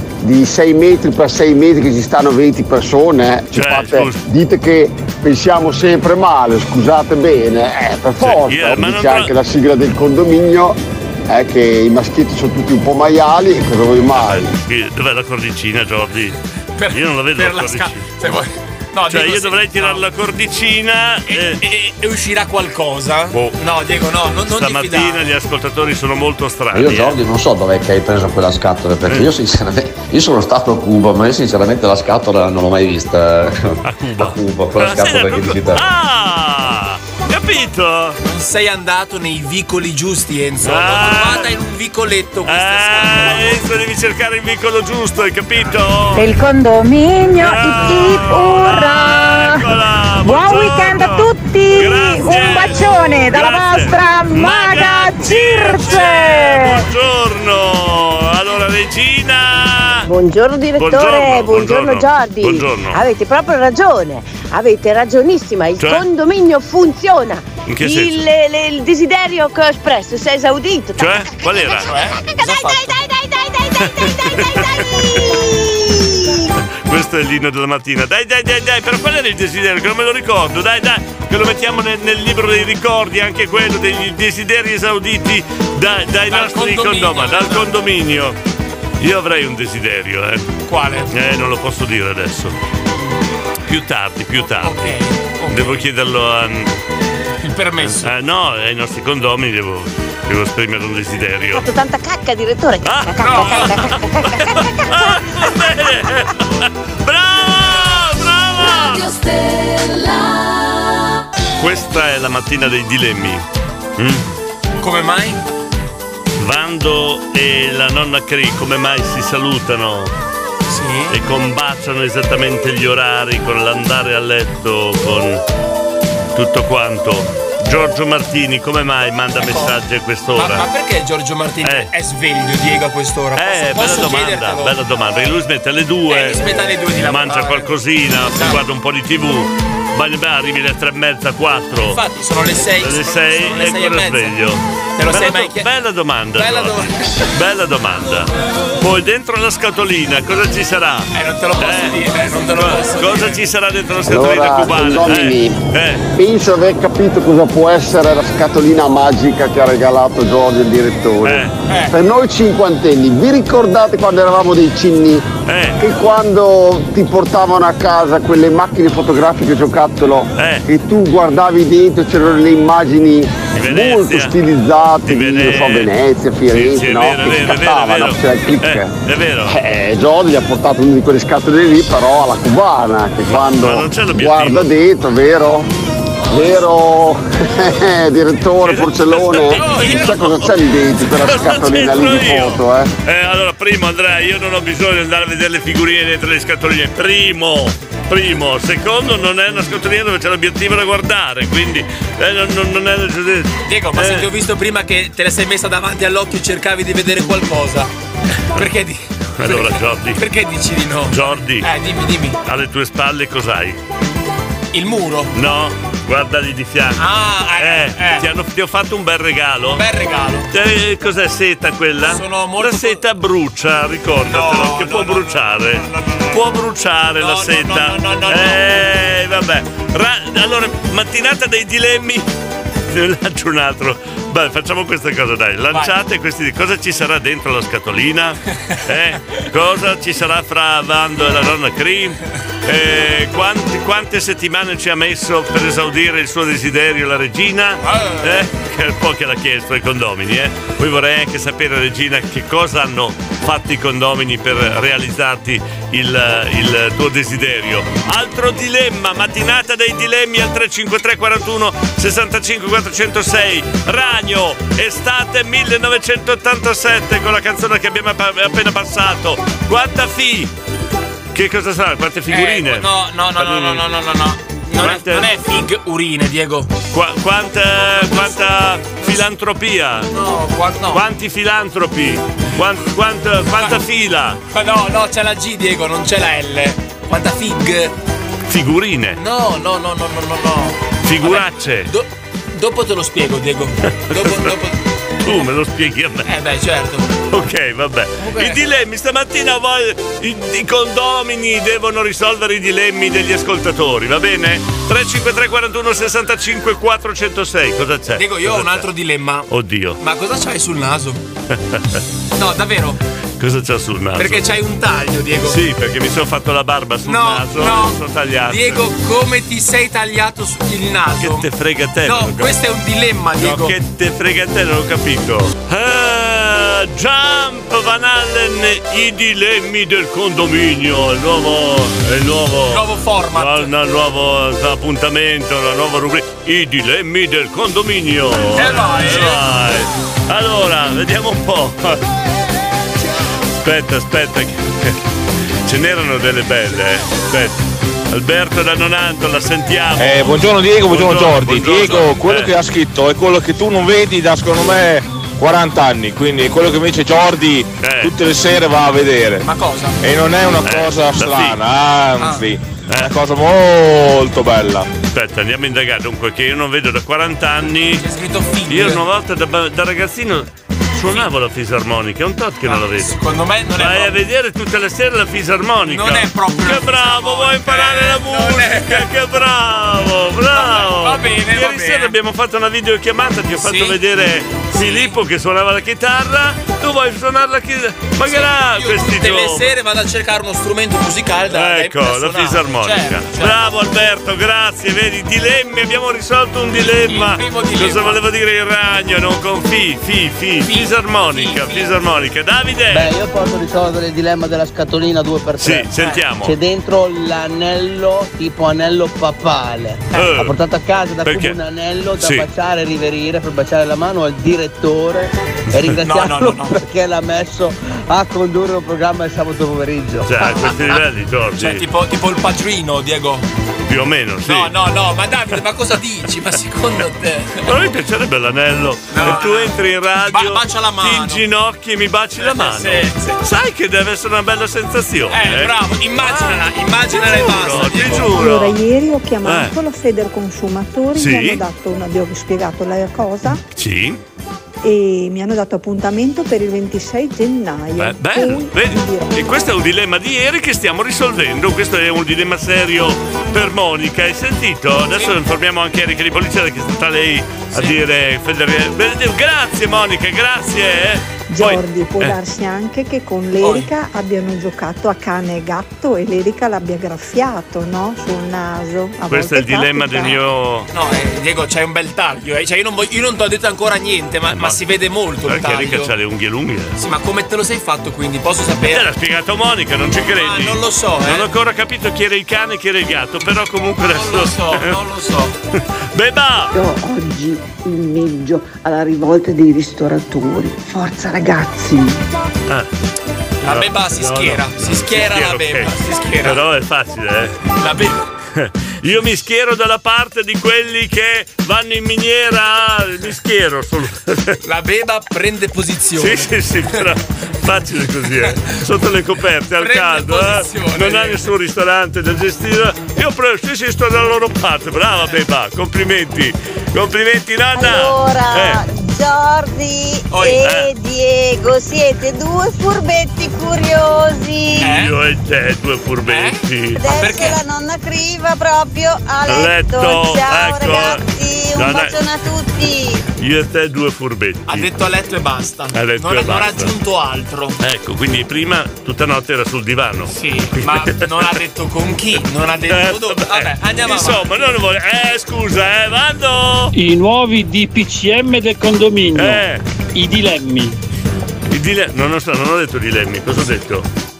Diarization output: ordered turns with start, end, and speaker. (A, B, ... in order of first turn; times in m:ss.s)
0:00.2-0:10.8 A
0:03.5-0:04.2 B
0:08.2-0:09.3 B
0:11.3-0:14.5 A
0:14.2-0:16.4 B
0:16.8-0:20.0 C
0:16.9-0:18.0 B
0:19.1-0:21.6 B
0:21.3-0:25.2 C
0:24.5-0:27.2 B
0:26.7-0:35.8 D
0:33.8-0:38.2 B
0:38.2-0:43.6 C
0:40.6-0:41.5 B
0:42.4-0:46.3 B
0:47.4-1:00.1 B
1:00.0-1:16.5 E
1:00.8-1:03.0 B
1:05.8-1:06.0 B
1:07.7-1:08.2 B
1:11.0-1:11.9 B
1:11.8-1:13.0 C
1:13.8-1:15.4 B
1:16.6-1:28.4 B
1:26.3-1:27.7 C
1:29.0-1:30.5 B
1:30.7-1:31.1 C
1:31.1-1:32.5 B
1:33.6-1:34.9 B
1:34.6-1:35.8 C
1:35.5-1:36.7 B
1:37.4-1:38.1 C
1:37.9-1:41.6 B
1:41.5-1:45.5 E
1:42.8-1:49.1 B
1:43.2-1:43.8 C
1:51.6-1:53.4 B
1:54.0-1:54.2 B
1:54.8-1:55.4 C
1:56.4-2:00.1 B
2:00.7-2:01.2 C
2:01.1-2:05.4 B
2:06.3-2:10.6 B
2:09.4-2:09.8 C
2:10.3-2:14.8 C
2:11.6-2:11.9 B
2:13.4-2:22.0 B
2:16.1-2:18.6 C
2:21.8-2:24.4 C
2:22.8-2:36.0 B
2:25.0-2:25.7 C
2:26.3-2:27.3 C
2:31.1-2:33.4 C
2:34.1-2:35.6 A
2:36.1-2:45.2 A
2:41.2-2:41.5 B
2:41.7-2:41.9 C
2:45.4-2:45.8 B
2:45.8-2:58.9 A
2:50.4-2:50.6 B
2:53.5-2:54.4 B
2:55.1-2:55.9 B
2:56.5-2:59.6 B
2:59.5-3:05.7 A
3:03.2-3:04.7 B
3:06.3-3:12.9 A
3:08.7-3:10.5 B
3:09.3-3:10.2 C
3:11.1-3:24.3 B
3:23.6-3:27.9 C
3:28.5-3:32.4 C
3:29.4-3:30.2 B
3:31.1-3:31.7 B
3:32.4-3:33.8 B
3:34.7-3:35.3 C
3:35.3-3:37.0 B
3:37.0-3:38.3 C
3:37.6-3:39.8 B
3:39.7-3:40.5 C
3:40.5-3:52.3 B
3:42.0-3:43.0 C
3:44.2-3:46.4 C
3:47.2-3:48.8 C
3:52.9-4:30.5 B
4:07.8-4:08.4 C
4:31.3-4:32.9 B
4:32.3-4:36.8 C
4:33.4-4:33.8 B
4:34.8-4:35.3 B
4:36.9-4:40.1 B
4:37.9-4:39.3 C
4:40.1-4:41.0 C
4:40.9-4:44.4 B
4:43.5-4:43.9 C
4:44.5-4:47.9 C
4:48.4-4:49.2 B
4:49.2-4:55.5 C
4:51.0-4:51.9 B
4:54.1-4:54.5 B
4:55.2-4:56.3 B
4:56.2-4:57.1 C
4:57.3-5:08.8 B
4:58.2-4:58.6 C
5:08.1-5:09.5 C
5:09.5-5:10.0 B
5:10.0-5:11.2 C
5:11.5-5:12.0 B
5:12.3-5:13.0 C
5:13.4-5:14.4 B
5:14.2-5:15.6 C
5:15.5-5:18.8 B
5:17.0-5:21.5 C
5:21.2-5:22.5 B
5:22.0-5:23.8 C
5:23.4-5:42.0 B
5:32.7-5:33.7 C
5:38.5-5:39.4 C
5:43.5-5:45.0 B
5:45.6-5:52.5 B
5:50.0-5:59.5 F
5:57.8-5:58.1 B
5:59.4-6:00.0 C
6:00.0-6:04.9 F
6:00.6-6:01.6 B
6:02.2-6:02.4 C
6:05.1-6:08.0 B
6:07.9-6:09.0 C
6:08.7-6:13.2 B
6:12.6-6:14.2 C
6:13.8-6:29.7 B
6:15.8-6:19.1 C
6:20.5-6:22.1 C
6:23.5-6:25.2 C
6:28.2-6:33.6 C
6:31.5-6:43.1 B
6:37.0-6:38.2 C
6:40.6-6:42.0 C
6:42.9-6:45.9 G
6:45.6-6:46.6 B
6:46.0-6:46.2 C
6:46.4-7:00.3 G
6:50.1-6:50.6 B
6:51.2-6:51.6 B
6:52.2-6:52.5 B
6:56.0-6:56.8 C
7:00.2-7:01.8 B
7:00.4-7:01.0 C
7:01.6-7:03.4 C
7:03.9-7:04.7 B
7:04.4-7:07.7 C
7:07.6-7:18.8 B
7:09.1-7:11.4 C
7:12.4-7:13.4 C
7:15.3-7:18.4 C
7:18.1-7:23.6 H
7:19.4-7:19.7 B
7:21.1-7:21.6 B
7:23.7-7:24.2 B
7:24.8-7:29.4 H
7:28.0-7:42.3 B
7:35.1-7:35.4 C
7:37.7-7:38.0 C
7:41.5-7:50.4 H
7:43.6-7:43.9 C
7:49.3-7:50.9 B
7:50.9-7:56.1 C
7:54.5-7:54.8 B
7:55.4-7:57.0 B
7:57.0-7:59.1 C
7:58.8-8:04.9 B
8:00.3-8:01.5 C
8:04.1-8:05.6 C
8:06.1-8:06.7 B
8:06.7-8:12.1 I
8:13.6-8:16.6 C
8:13.7-8:15.9 B
8:16.4-8:17.6 B
8:17.8-8:18.2 C
8:18.5-8:24.6 B
8:24.6-8:27.0 C
8:26.2-8:38.8 B
8:28.3-8:28.7 C
8:29.8-8:31.5 C
8:37.7-8:44.9 J
8:40.3-8:40.6 C
8:40.6-8:40.9 B
8:44.8-8:45.2 C
8:44.8-8:47.0 B
8:46.2-8:47.6 C
8:47.0-8:53.2 J
8:49.5-8:51.2 B
8:51.7-8:52.2 B
8:53.4-8:54.9 B
8:54.7-8:57.8 C
8:55.9-8:56.9 B
8:57.8-9:01.1 B
9:00.3-9:04.8 C
9:02.9-9:06.9 B
9:06.9-9:11.0 K
9:09.3-9:09.8 B
9:11.7-9:14.1 B